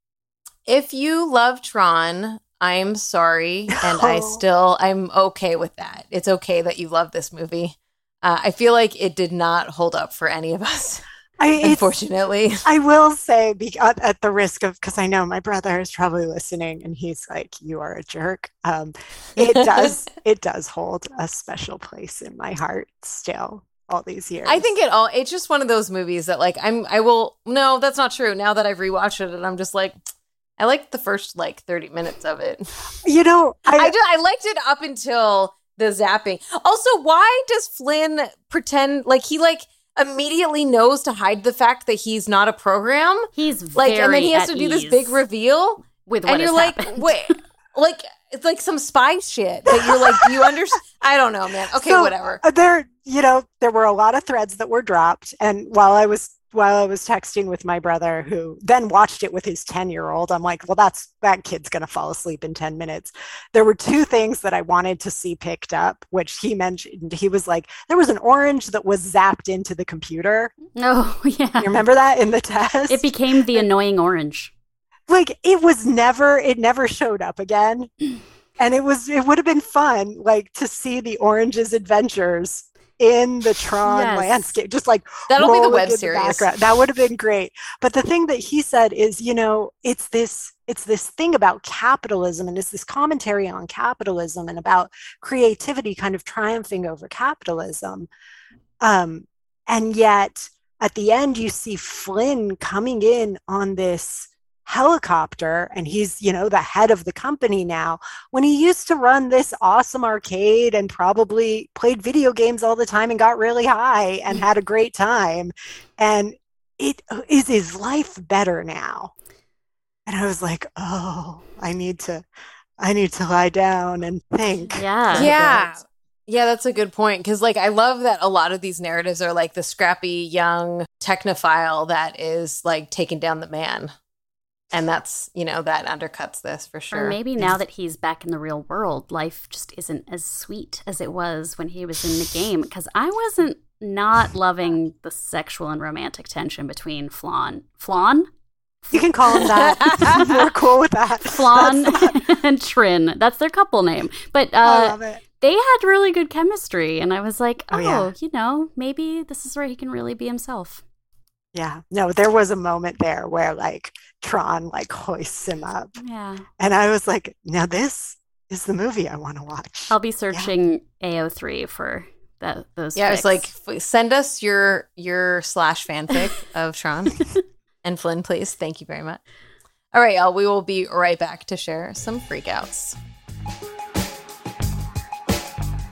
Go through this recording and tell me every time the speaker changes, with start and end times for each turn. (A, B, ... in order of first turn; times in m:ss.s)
0:00.7-0:11.0 A
0:03.8-0:04.4 B
0:11.4-0:11.9 B
0:11.6-0:12.6 A
0:12.6-0:24.7 B
0:24.4-0:30.0 A
0:30.6-0:32.8 A
0:33.0-0:33.9 B
0:33.7-0:52.4 A
0:43.4-0:45.2 C
0:46.0-0:47.3 C
0:49.8-0:50.3 B
0:51.7-1:10.5 B
1:10.8-1:11.8 C
1:11.6-1:13.6 B
1:12.9-1:14.5 C
1:15.1-1:17.9 B
1:18.6-1:38.1 B
1:23.8-1:24.5 C
1:25.3-1:26.5 A
1:38.8-1:59.1 B
2:00.1-2:02.3 B
2:02.8-2:05.7 B
2:04.7-2:05.6 C
2:05.2-2:13.9 A
2:14.7-2:17.2 A
2:16.9-2:28.3 C
2:28.9-2:29.5 C
2:28.9-2:32.1 B
2:29.6-2:30.2 A
2:31.3-2:40.8 C
2:34.6-2:35.2 B
2:37.7-2:38.1 B
2:41.5-2:46.0 B
2:46.0-2:46.5 C
2:46.6-2:50.5 B
2:49.9-2:53.5 C
2:53.0-2:57.2 A
2:57.8-2:59.2 A
2:59.9-3:03.0 A